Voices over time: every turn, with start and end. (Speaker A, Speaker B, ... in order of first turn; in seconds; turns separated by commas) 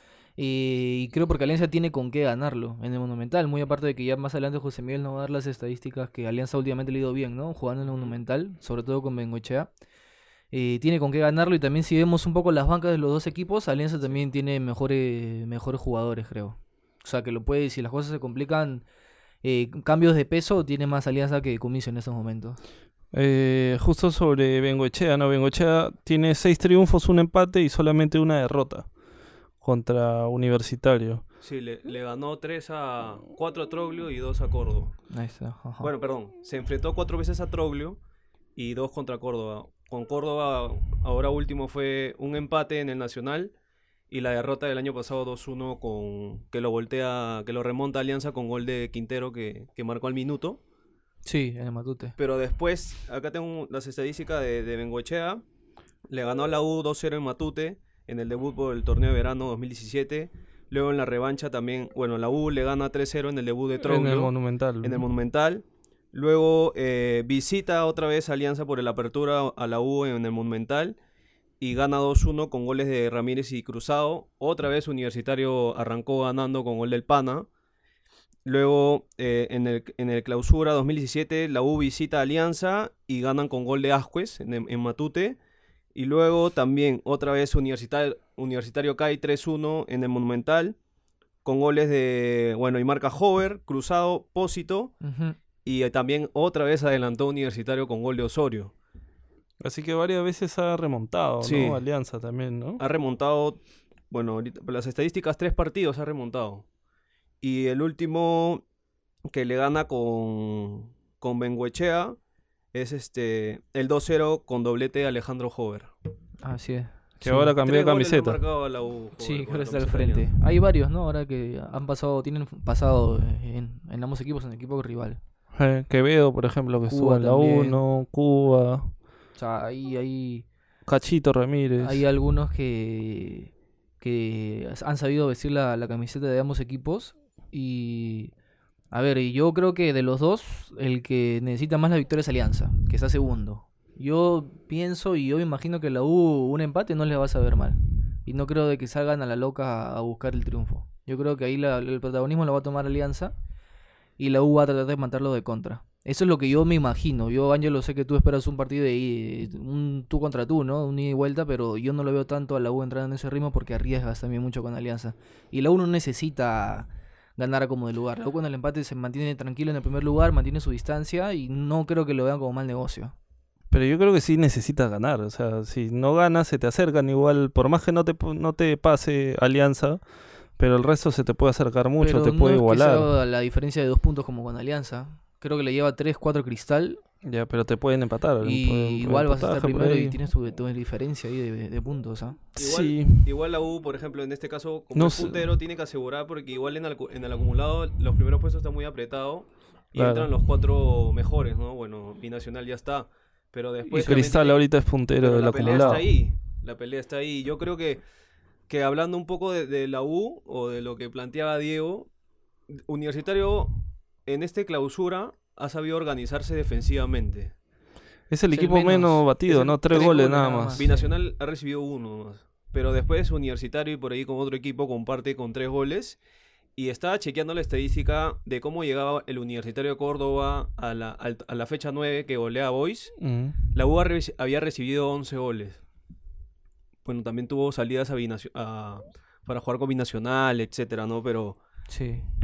Speaker A: 0.4-9.7, Speaker A: 10.5-18.9, Speaker A: 19.4-22.6, Speaker B: 23.1-28.9, Speaker B: 29.6-31.2, Speaker C: 31.4-34.9, Speaker A: 35.1-35.9, Speaker C: 35.8-38.0, Speaker C: 38.5-43.5, Speaker C: 44.1-50.6, Speaker A: 51.2-52.1, Speaker C: 52.2-55.4, Speaker C: 56.1-71.0, Speaker B: 63.8-65.0, Speaker C: 71.6-77.5, Speaker C: 78.4-85.4, Speaker C: 85.9-90.8, Speaker C: 91.4-94.9, Speaker A: 95.0-95.3, Speaker C: 95.6-98.7, Speaker B: 99.6-102.8, Speaker C: 101.4-101.8, Speaker C: 102.8-103.6, Speaker C: 104.1-106.6, Speaker C: 107.4-108.6, Speaker C: 109.3-112.2, Speaker C: 112.7-115.9, Speaker A: 116.4-117.5, Speaker B: 117.2-118.4, Speaker C: 117.6-120.3, Speaker A: 119.2-125.2, Speaker B: 125.5-128.9, Speaker A: 126.9-127.8, Speaker A: 129.4-130.4, Speaker B: 130.8-132.0, Speaker A: 131.8-138.3, Speaker A: 138.9-153.3, Speaker A: 154.2-173.1, Speaker B: 173.7-183.1, Speaker A: 182.0-187.0, Speaker B: 187.2-190.2, Speaker A: 188.4-192.4, Speaker B: 192.6-193.3, Speaker C: 192.6-208.0, Speaker B: 194.9-195.5, Speaker B: 199.9-200.3, Speaker B: 203.9-206.1, Speaker A: 204.0-204.3, Speaker A: 205.6-206.0, Speaker C: 208.7-212.1, Speaker C: 212.7-217.5, Speaker B: 218.3-220.8, Speaker A: 218.5-221.1, Speaker C: 219.9-220.2, Speaker C: 220.7-226.2, Speaker C: 226.8-235.8, Speaker B: 233.2-233.6, Speaker C: 237.0-241.6, Speaker A: 241.9-242.2